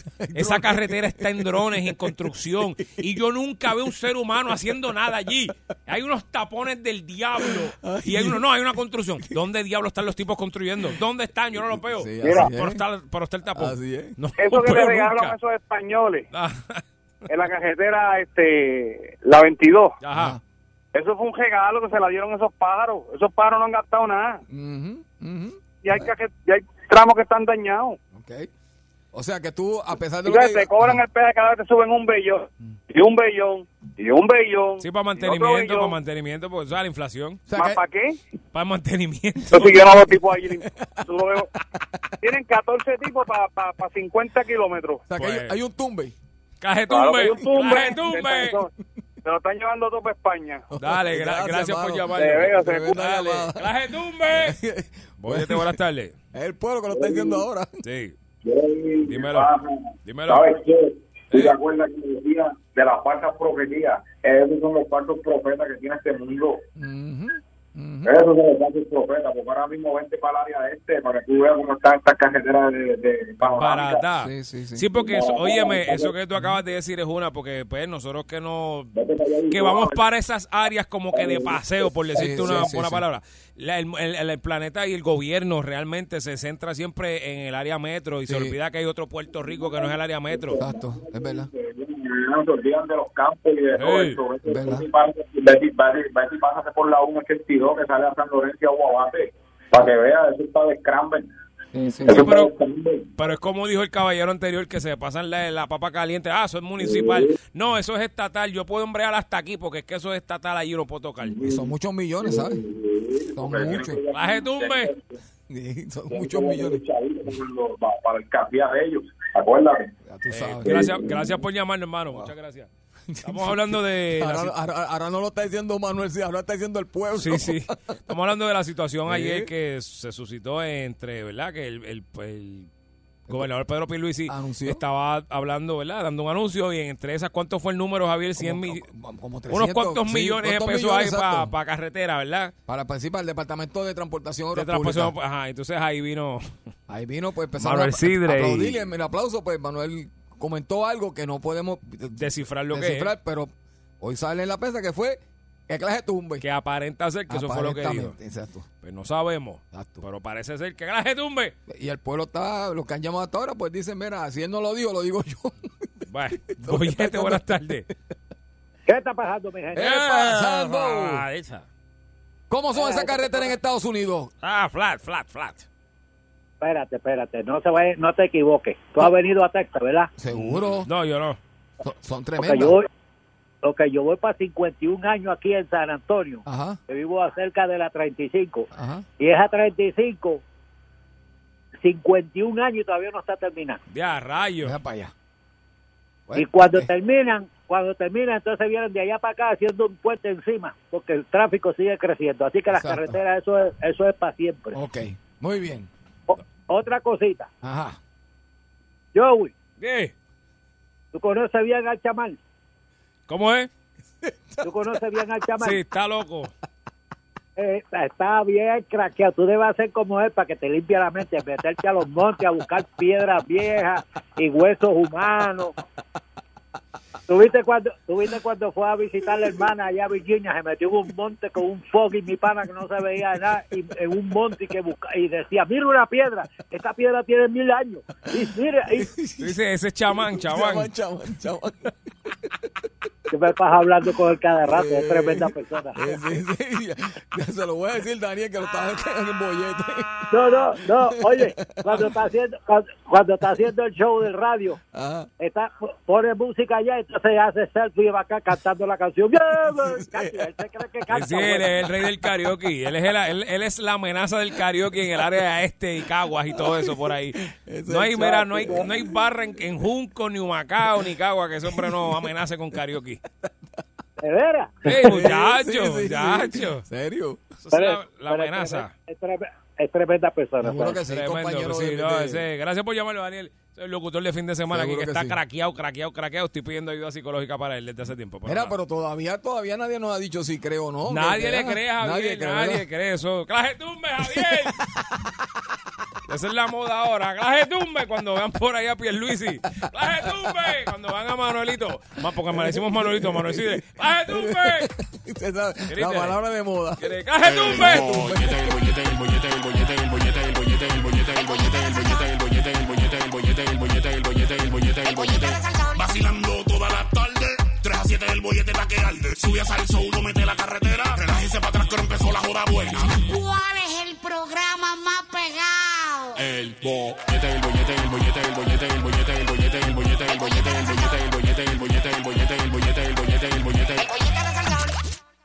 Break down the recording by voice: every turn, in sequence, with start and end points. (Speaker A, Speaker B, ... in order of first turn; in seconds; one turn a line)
Speaker A: 0.2-2.2
Speaker B: 0.3-15.4
Speaker A: 7.4-8.4
Speaker A: 11.6-12.8
Speaker A: 13.6-14.2
Speaker C: 14.4-16.3
Speaker B: 16.3-16.8
Speaker C: 17.3-19.9
Speaker B: 20.0-20.4
Speaker A: 20.1-20.4
Speaker C: 20.9-24.4
Speaker A: 24.5-26.1
Speaker C: 25.8-28.0
Speaker A: 28.1-28.5
Speaker A: 29.1-31.0
Speaker C: 30.3-35.9
Speaker B: 34.8-37.5
Speaker A: 37.5-37.8
Speaker C: 37.6-38.1
Speaker B: 38.5-40.0
Speaker C: 39.6-41.5
Speaker A: 40.5-41.1
Speaker C: 42.2-45.0
Speaker A: 45.1-46.1
Speaker B: 45.1-45.6
Speaker B: 46.6-48.6
Speaker C: 46.9-48.7
Speaker C: 49.2-50.6
Speaker A: 50.7-53.8
Speaker B: 50.8-54.6
Speaker C: 52.4-53.0
Speaker A: 54.3-55.8
Speaker B: 55.2-56.2
Speaker A: 56.3-57.8
Speaker B: 57.8-58.1
Speaker D: 58.4-66.6
Speaker B: 59.0-59.5
Speaker B: 60.0-60.5
Speaker B: 61.3-61.6
Speaker A: 66.8-68.2
Speaker D: 68.0-74.0
Speaker B: 73.4-78.9
Speaker A: 74.2-74.9
Speaker D: 75.0-76.1
Speaker D: 78.9-80.0
Speaker B: 79.5-90.6
Speaker D: 81.2-81.6
Speaker A: 82.1-83.0
Speaker A: 88.3-88.6
Speaker D: 90.3-101.3
Speaker A: 90.5-91.5
Speaker B: 93.7-94.2
Speaker A: 94.5-94.9
Speaker A: 101.7-102.3
Speaker D: 102.1-103.1
Speaker B: 102.2-102.5
Speaker B: 103.2-111.4
Speaker D: 106.9-107.2
Speaker A: 111.4-112.6
Speaker D: 112.2-115.0
Speaker A: 113.3-114.0
Speaker B: 114.1-114.9
Speaker A: 115.5-116.8
Speaker D: 116.1-119.9
Speaker A: 120.1-121.2
Speaker B: 120.3-122.7
Speaker A: 123.1-127.7
Speaker B: 123.2-124.5
Speaker B: 127.1-132.7
Speaker A: 129.1-129.5
Speaker B: 133.3-138.9
Speaker A: 134.3-134.8
Speaker A: 138.4-141.5
Speaker B: 139.5-142.5
Speaker A: 142.7-145.2
Speaker B: 144.5-146.5
Speaker A: 146.9-156.4
Speaker B: 147.6-148.8
Speaker B: 152.2-153.1
Speaker B: 156.4-158.1
Speaker A: 157.3-158.7
Speaker B: 158.8-161.6
Speaker A: 159.7-160.1
Speaker A: 161.7-167.6
Speaker B: 166.1-167.9
Speaker E: 168.9-169.9
Speaker A: 169.7-171.2
Speaker B: 169.8-171.7
Speaker A: 172.5-174.3
Speaker E: 172.7-173.5
Speaker B: 174.4-175.7
Speaker E: 176.6-180.1
Speaker A: 180.2-180.9
Speaker B: 180.4-181.4
Speaker A: 181.8-182.8
Speaker E: 182.4-182.9
Speaker E: 183.6-188.7
Speaker A: 186.4-186.8
Speaker A: 188.7-189.1
Speaker E: 189.2-190.4
Speaker E: 191.8-193.8
Speaker B: 193.9-194.8
Speaker A: 194.6-195.1
Speaker A: 196.3-196.9
Speaker E: 196.3-204.8
Speaker A: 202.7-203.2
Speaker A: 204.7-205.9
Speaker E: 206.3-207.5
Speaker A: 207.6-208.0
Speaker E: 209.1-209.5
Speaker B: 209.8-210.1
Speaker E: 211.1-212.4
Speaker B: 213.3-213.7
Speaker A: 214.2-215.0
Speaker E: 214.6-215.8
Speaker B: 215.6-216.5
Speaker E: 217.6-225.7
Speaker E: 227.3-239.1
Speaker A: 238.3-239.6
Speaker B: 239.4-240.9
Speaker A: 240.4-241.9
Speaker E: 243.3-246.2
Speaker A: 244.7-252.1
Speaker E: 250.3-254.8
Speaker A: 254.9-255.3
Speaker E: 255.4-261.8
Speaker A: 259.8-260.5
Speaker B: 261.1-273.2
Speaker A: 266.6-266.9
Speaker A: 267.5-269.1
Speaker E: 268.2-268.7
Speaker A: 271.7-272.2
Speaker E: 274.2-274.9
Speaker B: 274.9-276.8
Speaker A: 274.9-277.4
Speaker B: 277.6-278.9
Speaker E: 277.7-281.0
Speaker A: 280.6-282.4
Speaker B: 281.0-288.8
Speaker A: 284.7-285.4
Speaker A: 288.4-292.9
Speaker B: 291.1-294.8
Speaker A: 294.2-295.3
Speaker B: 296.3-304.9
Speaker A: 300.2-300.5
Speaker A: 302.5-307.2
Speaker B: 305.9-306.4
Speaker B: 307.0-308.1
Speaker F: 307.4-323.3
Speaker A: 307.7-308.7
Speaker G: 315.1-316.1
Speaker G: 323.1-326.4
Speaker F: 326.4-334.5
Speaker G: 334.1-334.9